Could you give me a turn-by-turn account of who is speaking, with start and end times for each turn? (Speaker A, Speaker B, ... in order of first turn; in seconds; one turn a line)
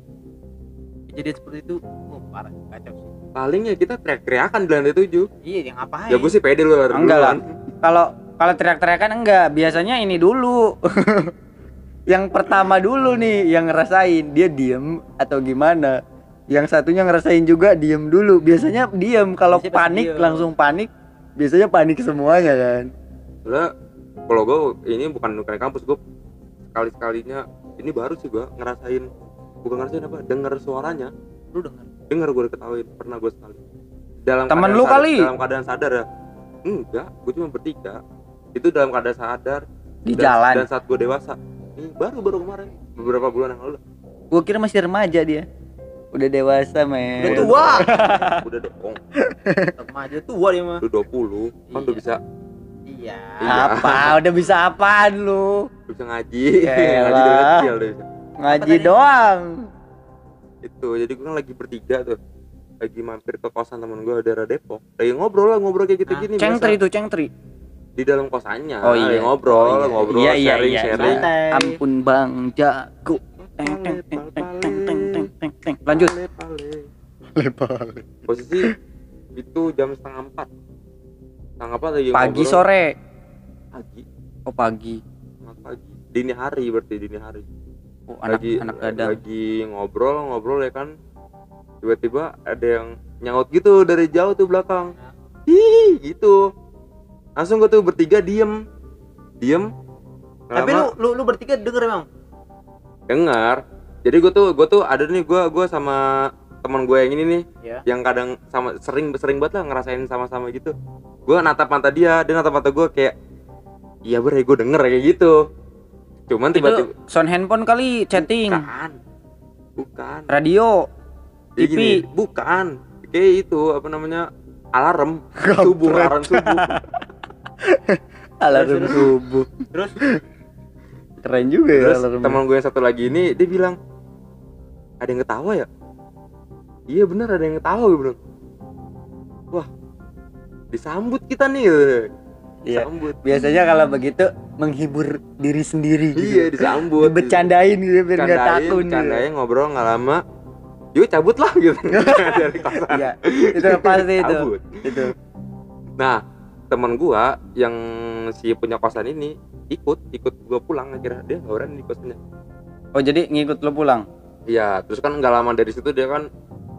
Speaker A: 1.1-3.1
Speaker B: 3.4-5.3
Speaker A: 5.4-6.3
Speaker B: 6.1-7.5
Speaker C: 6.9-11.3
Speaker C: 12.1-16.0
Speaker C: 16.5-22.9
Speaker A: 19.5-20.5
Speaker B: 23.4-23.7
Speaker B: 24.3-26.0
Speaker B: 26.7-29.1
Speaker B: 29.6-31.1
Speaker A: 31.5-31.9
Speaker B: 32.1-33.6
Speaker B: 34.2-36.0
Speaker C: 34.5-35.3
Speaker B: 36.6-38.0
Speaker B: 38.5-43.8
Speaker C: 40.1-40.7
Speaker C: 44.3-45.5
Speaker C: 46.1-48.4
Speaker A: 47.2-48.3
Speaker B: 47.2-49.0
Speaker C: 49.2-49.8
Speaker A: 49.8-50.8
Speaker B: 50.8-52.2
Speaker A: 51.7-52.0
Speaker A: 52.9-54.1
Speaker B: 53.4-54.2
Speaker C: 53.5-55.7
Speaker B: 55.9-58.0
Speaker C: 56.6-57.7
Speaker C: 58.4-59.7
Speaker A: 58.5-58.9
Speaker B: 60.6-62.2
Speaker B: 62.8-66.8
Speaker C: 66.4-67.3
Speaker B: 68.0-71.2
Speaker C: 68.8-76.1
Speaker A: 71.0-71.8
Speaker B: 73.4-75.3
Speaker B: 75.9-76.9
Speaker C: 77.3-78.1
Speaker B: 78.3-78.7
Speaker B: 79.3-80.5
Speaker B: 81.6-82.6
Speaker C: 82.1-82.9
Speaker B: 83.7-84.0
Speaker C: 84.5-85.0
Speaker B: 85.4-87.5
Speaker C: 88.1-89.1
Speaker B: 88.3-90.9
Speaker B: 91.8-94.9
Speaker B: 95.5-96.4
Speaker B: 97.4-98.5
Speaker B: 99.4-99.7
Speaker B: 100.5-100.9
Speaker A: 100.5-102.1
Speaker B: 103.1-106.0
Speaker B: 106.6-110.7
Speaker B: 111.2-113.1
Speaker B: 114.1-115.4
Speaker B: 116.3-116.9
Speaker C: 116.5-118.7
Speaker B: 118.2-119.0
Speaker B: 119.8-120.3
Speaker C: 120.3-120.8
Speaker B: 121.6-126.8
Speaker C: 121.6-122.0
Speaker C: 125.4-126.8
Speaker C: 127.6-130.2
Speaker A: 128.5-129.1
Speaker A: 129.7-129.9
Speaker C: 131.2-132.4
Speaker B: 131.7-133.8
Speaker B: 135.0-135.7
Speaker B: 136.9-138.2
Speaker B: 140.7-142.1
Speaker C: 142.7-149.2
Speaker B: 142.7-143.2
Speaker B: 146.1-147.5
Speaker B: 148.2-150.2
Speaker B: 150.9-155.0
Speaker C: 151.9-155.1
Speaker B: 156.0-162.2
Speaker C: 162.9-164.1
Speaker B: 164.5-166.3